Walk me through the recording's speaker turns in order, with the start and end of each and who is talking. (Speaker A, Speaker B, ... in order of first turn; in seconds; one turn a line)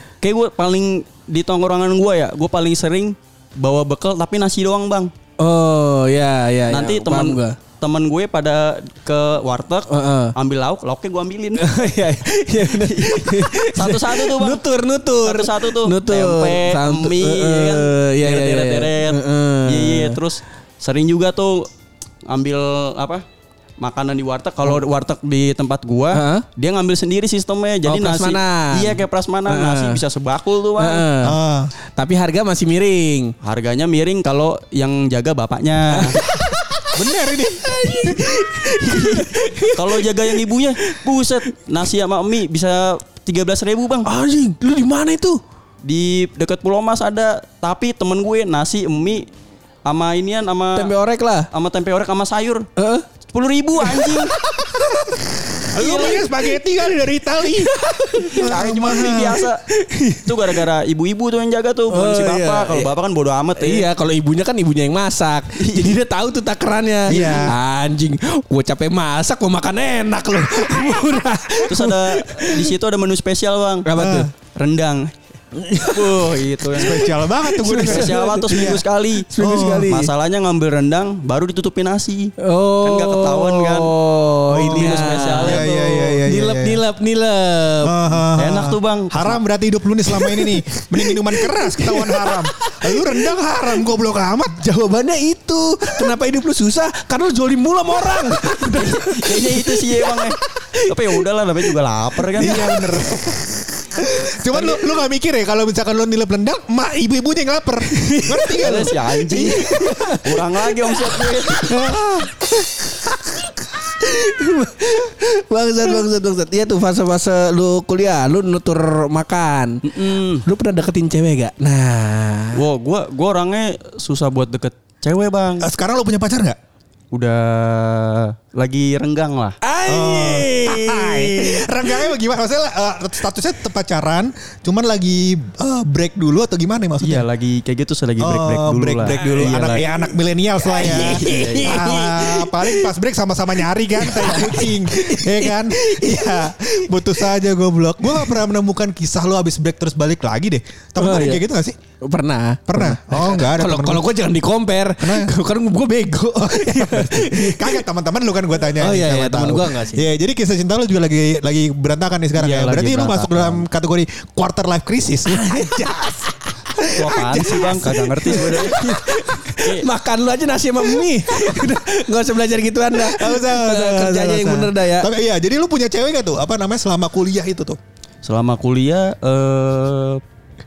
Speaker A: 0.2-5.1
Speaker B: 5.4-7.6
Speaker A: 6.7-11.8
Speaker B: 9.9-10.3
Speaker B: 11.6-20.2
Speaker A: 12.7-14.6
Speaker A: 15.2-21.7
Speaker A: 22.3-23.2
Speaker A: 23.8-31.1
Speaker B: 26.1-26.4
Speaker B: 27.8-30.0
Speaker B: 30.8-31.4
Speaker C: 31.2-31.7
Speaker B: 32.0-33.3
Speaker A: 33.4-36.2
Speaker B: 35.9-41.0
Speaker C: 36.9-38.4
Speaker A: 39.2-44.1
Speaker B: 44.0-45.4
Speaker A: 45.8-49.3
Speaker A: 49.8-50.9
Speaker B: 50.7-51.5
Speaker A: 51.5-52.7
Speaker B: 52.8-53.1
Speaker A: 53.3-54.3
Speaker B: 53.9-55.1
Speaker C: 54.6-59.4
Speaker A: 55.7-56.3
Speaker B: 57.4-58.6
Speaker A: 58.3-59.6
Speaker B: 59.7-60.4
Speaker A: 60.2-63.9
Speaker B: 61.9-62.9
Speaker B: 63.6-72.7
Speaker A: 65.6-65.9
Speaker C: 67.1-67.5
Speaker A: 67.1-67.5
Speaker A: 71.7-75.1
Speaker B: 73.8-74.3
Speaker C: 73.9-74.3
Speaker B: 75.5-76.6
Speaker A: 75.9-83.9
Speaker C: 76.7-78.8
Speaker B: 77.4-78.7
Speaker B: 79.3-80.1
Speaker C: 79.4-79.9
Speaker B: 82.4-88.2
Speaker C: 84.5-86.8
Speaker A: 84.6-85.7
Speaker C: 87.8-94.6
Speaker A: 88.3-89.4
Speaker B: 90.1-93.8
Speaker B: 94.5-103.1
Speaker A: 98.7-102.7
Speaker C: 102.3-110.0
Speaker B: 107.8-111.9
Speaker A: 108.6-111.8
Speaker C: 111.5-112.3
Speaker B: 112.4-119.8
Speaker A: 119.8-120.4
Speaker B: 120.4-122.6
Speaker A: 122.5-125.7
Speaker C: 125.6-126.6
Speaker A: 127.1-129.6
Speaker B: 129.6-132.1
Speaker C: 129.9-137.2
Speaker A: 137.0-139.8
Speaker C: 138.2-151.8
Speaker B: 139.0-140.1
Speaker B: 140.6-142.9
Speaker A: 140.9-141.9
Speaker B: 143.9-147.2
Speaker B: 148.1-148.4
Speaker B: 151.0-151.4
Speaker B: 152.0-157.8
Speaker C: 152.7-154.1
Speaker C: 155.0-155.3
Speaker C: 156.3-166.2
Speaker B: 158.7-160.1
Speaker A: 162.3-163.6
Speaker B: 165.3-175.1
Speaker C: 166.8-168.9
Speaker A: 166.9-169.0
Speaker A: 169.6-169.8
Speaker C: 171.0-171.8
Speaker C: 172.9-177.8
Speaker A: 178.2-180.2